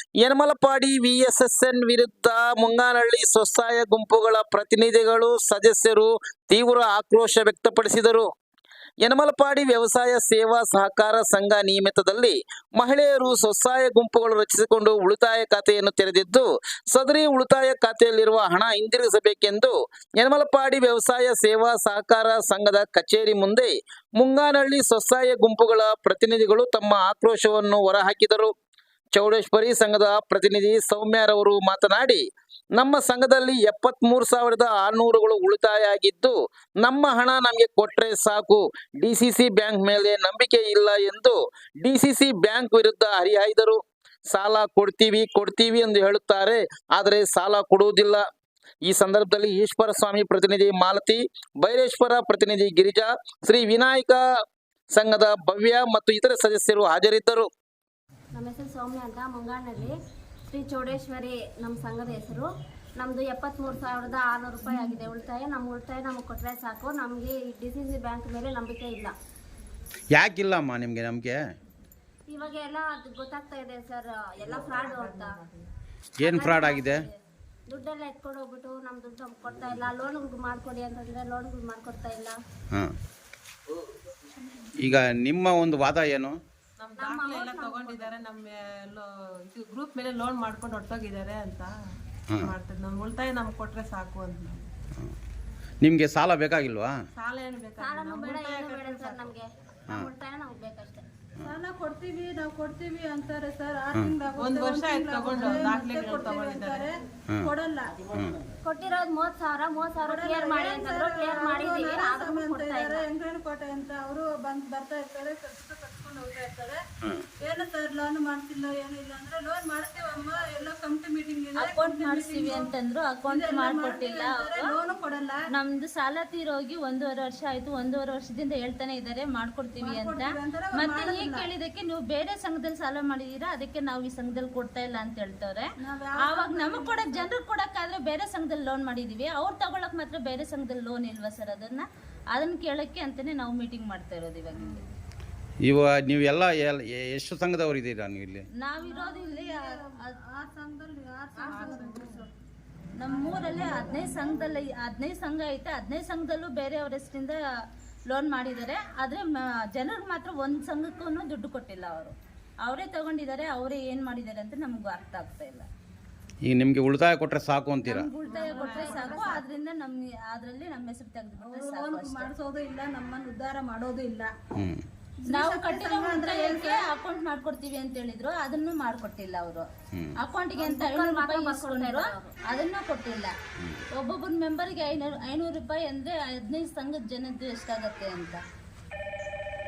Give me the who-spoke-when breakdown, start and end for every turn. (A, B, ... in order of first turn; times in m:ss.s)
0:00.2-0:08.3 A
0:09.0-0:28.5 A
0:29.2-0:48.2 A
0:48.8-0:54.2 A
0:54.9-0:57.5 A
0:58.3-1:00.0 B
1:00.5-1:09.1 B
1:10.1-1:11.4 C
1:12.3-1:15.4 B
1:14.4-1:15.7 D
1:16.2-1:17.1 B
1:16.2-1:17.0 C
1:17.7-1:22.4 B
1:24.8-1:26.4 C
1:26.8-1:28.5 D
1:27.0-1:28.2 B
1:28.8-1:31.7 E
1:32.4-1:34.6 E
1:35.8-1:37.0 C
1:37.2-1:39.2 D
1:37.4-1:38.0 E
1:37.8-1:41.0 B
1:41.4-1:48.0 D
1:44.4-1:46.4 E
1:48.1-1:48.4 C
1:48.6-1:53.1 B
1:50.0-1:56.8 D
1:57.4-2:02.7 D
2:01.6-2:04.8 F
2:03.3-2:05.4 D
2:05.5-2:15.7 F
2:09.8-2:11.5 D
2:15.8-2:17.3 D
2:16.2-2:24.8 F
2:25.6-2:28.5 C
2:28.6-2:30.1 F
2:28.8-2:32.3 D
2:31.4-2:31.9 F
2:32.9-2:37.4 F
2:33.1-2:34.1 D
2:38.1-2:45.7 F
2:46.4-2:48.1 C
2:47.8-2:52.3 F
2:48.3-2:49.4 D
2:48.3-2:49.0 E
2:48.4-2:49.4 B
2:51.4-2:54.3 D
2:54.5-2:54.8 C
2:55.2-2:56.8 D
2:55.3-3:03.3 F
3:00.6-3:02.3 B
3:03.9-3:08.4 F